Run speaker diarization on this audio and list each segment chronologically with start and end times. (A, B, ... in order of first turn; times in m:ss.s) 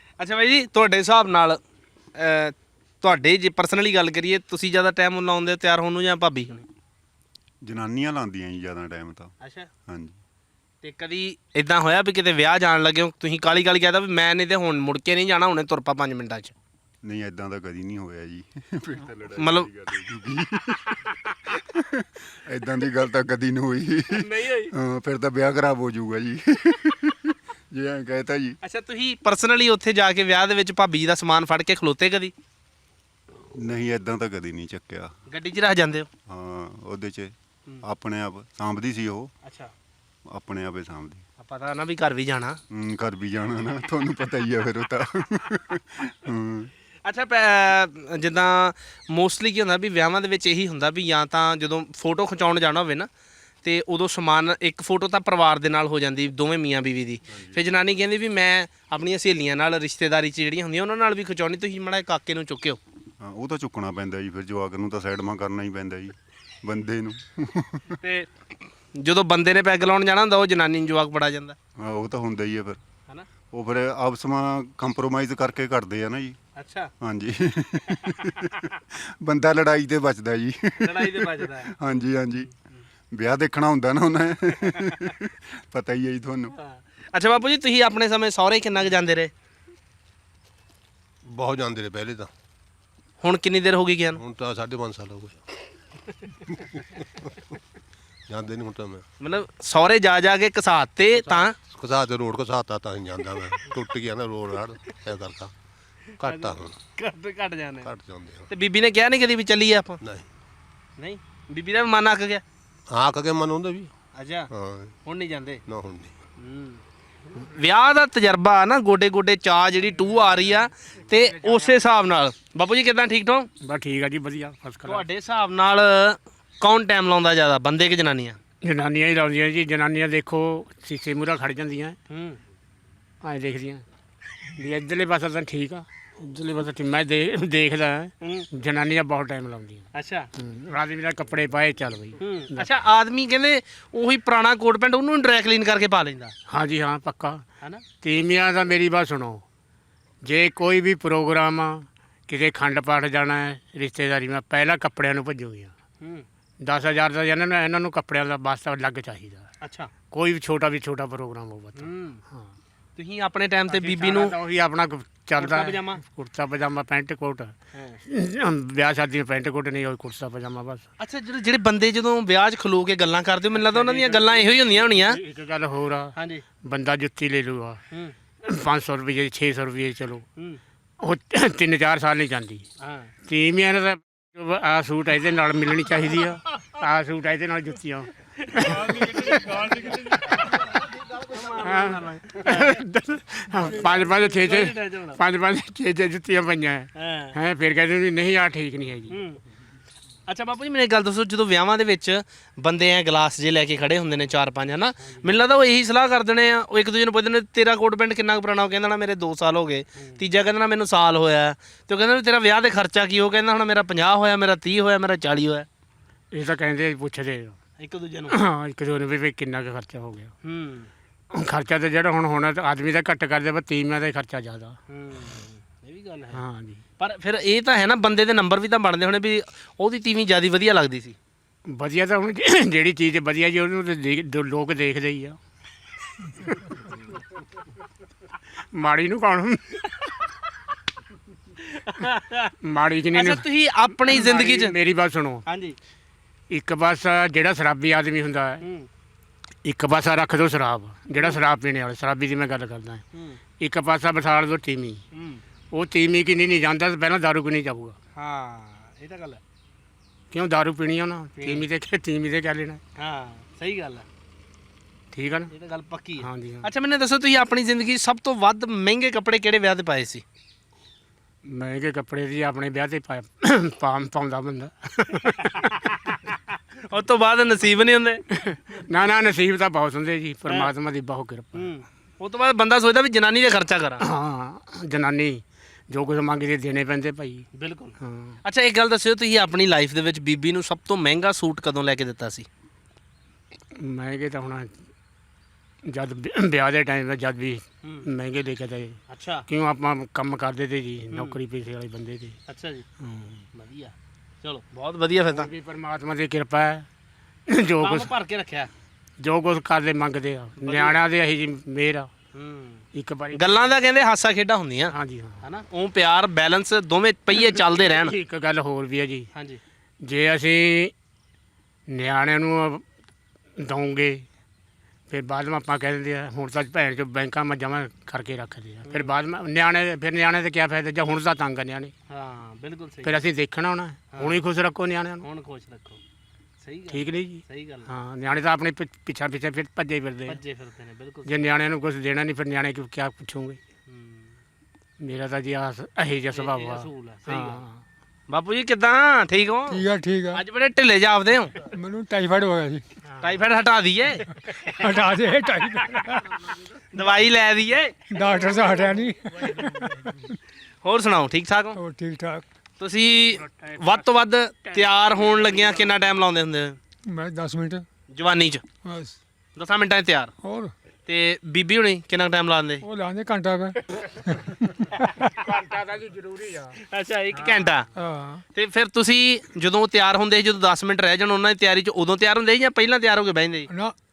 0:00.2-0:01.6 A
0:02.1-0:06.6 A
0:07.6-0:09.3 B
0:09.4-0:09.7 A
0:09.9-0:10.2 B
0:10.8-0:16.5 A
0:17.0-0:28.6 B
0:19.4-0:19.7 A
0:24.1-0:24.7 A
0:28.6-0:32.3 A
0:33.5-0:35.1 B
0:35.3-0:36.1 A
0:36.3-0:39.3 B
0:39.4-0:39.7 A
0:40.3-0:41.2 B
0:41.4-0:42.6 A
0:42.7-0:46.7 B
0:47.0-0:53.1 A
0:53.6-1:02.8 A
0:57.3-0:57.6 B
1:03.2-1:08.0 B
1:08.0-1:11.6 A
1:11.8-1:12.8 B
1:13.5-1:16.4 B
1:16.6-1:16.9 A
1:17.0-1:22.5 B
1:20.8-1:21.7 A
1:23.1-1:26.6 B
1:26.5-1:29.3 A
1:31.3-1:32.3 C
1:33.2-1:34.2 A
1:34.2-1:35.4 C
1:36.5-1:37.3 C
1:38.3-1:39.0 C
1:39.2-1:41.6 A
1:41.4-1:45.5 C
1:46.2-1:46.8 C
1:46.2-1:47.9 A
1:47.8-1:48.5 C
1:48.5-1:50.0 A
1:50.0-1:50.3 C
1:51.0-1:52.4 A
1:52.9-1:53.9 C
1:54.1-1:54.5 A
1:54.5-1:54.9 C
1:55.0-1:55.6 A
1:55.7-1:56.1 C
1:56.4-1:56.8 A
1:57.3-2:03.5 A
2:01.1-2:01.8 D
2:03.6-2:05.0 D
2:04.8-2:08.4 A
2:08.6-2:12.0 D
2:12.1-2:12.4 A
2:13.2-2:13.8 D
2:14.6-2:22.7 D
2:18.2-2:18.5 A
2:19.9-2:20.3 A
2:22.2-2:26.3 A
2:26.5-2:27.4 D
2:28.0-2:29.4 D
2:30.2-2:35.7 D
2:36.0-2:36.2 A
2:36.6-2:39.5 D
2:39.6-2:39.9 A
2:40.1-2:42.5 D
2:41.8-2:42.2 A
2:43.0-2:44.3 A
2:43.7-2:50.8 D
2:45.4-2:46.0 A
2:47.7-2:48.0 A
2:51.0-2:55.2 A
2:53.6-2:57.8 D
2:56.2-2:56.4 A
2:58.4-3:00.2 D
3:01.0-3:02.6 D
3:02.8-3:03.1 A
3:03.3-3:10.7 D
3:08.6-3:12.8 A
3:11.4-3:19.2 D
3:13.6-3:15.2 A
3:17.0-3:17.4 A
3:19.1-3:19.4 A
3:20.3-3:35.7 A
3:25.0-3:25.3 D
3:36.3-3:37.6 D
3:37.8-3:38.4 A
3:38.3-3:40.3 D
3:40.4-3:40.9 A
3:41.3-3:44.8 D
3:44.9-3:46.4 A
3:46.3-3:46.8 D
3:47.0-3:51.2 A
3:51.7-3:55.4 D
3:58.7-4:00.0 D
4:01.7-4:02.5 A
4:02.6-4:03.4 D
4:03.1-4:04.7 A
4:04.1-4:05.4 D
4:05.4-4:05.8 A
4:06.5-4:08.6 D
4:08.6-4:08.9 A
4:09.6-4:13.0 D
4:13.1-4:13.4 A
4:13.6-4:15.0 D
4:15.1-4:15.4 A
4:15.7-4:18.0 D
4:18.1-4:19.4 A
4:20.3-4:22.8 D
4:21.4-4:21.6 A
4:23.0-4:24.0 A
4:25.1-4:25.5 D
4:25.5-4:30.2 A
4:26.2-4:26.7 D
4:31.4-4:36.2 D
4:36.9-4:38.2 A
4:38.3-4:41.7 D
4:41.5-4:44.0 A
4:44.0-4:47.4 D
4:47.5-4:52.5 A
4:48.0-4:48.4 D
4:53.7-4:54.8 D
4:55.8-5:02.4 D
4:59.1-4:59.4 A
5:02.5-5:02.8 A
5:03.0-5:03.4 D
5:03.5-5:05.5 A
5:05.3-5:06.9 D
5:07.5-5:08.1 D
5:07.8-5:08.7 A
5:09.2-5:12.1 D
5:10.6-5:11.0 A
5:12.3-5:18.1 A
5:12.9-5:13.7 D
5:14.9-5:15.4 D
5:17.3-5:19.3 D
5:19.3-5:19.6 A
5:20.0-5:20.9 D
5:21.9-5:22.8 D
5:23.6-5:24.2 D
5:25.1-5:31.9 D
5:28.8-5:29.1 A
5:32.1-5:33.2 A
5:33.0-5:35.2 D
5:35.2-5:36.0 A
5:36.6-5:37.9 A
5:36.9-5:40.4 D
5:40.3-5:41.3 A
5:41.2-5:43.6 D
5:43.9-5:44.3 A
5:45.0-5:47.8 D
5:46.3-5:47.6 A
5:48.3-5:51.6 A
5:49.7-5:50.4 E
5:51.6-5:52.8 E
5:53.2-5:54.4 A
5:54.6-5:56.5 E
5:56.9-5:58.0 A
5:58.1-6:00.4 E
6:00.8-6:01.8 A
6:01.7-6:02.4 E
6:02.8-6:06.8 A
6:03.4-6:04.1 D
6:04.6-6:05.9 D
6:07.1-6:07.8 E
6:08.1-6:08.6 A
6:08.8-6:09.2 E
6:09.6-6:10.3 A
6:10.4-6:10.7 E
6:11.1-6:12.8 A
6:12.8-6:14.7 E
6:15.3-6:16.8 D
6:16.8-6:17.9 A
6:17.4-6:17.7 D
6:17.9-6:18.4 E
6:18.6-6:23.7 A
6:23.7-6:23.9 E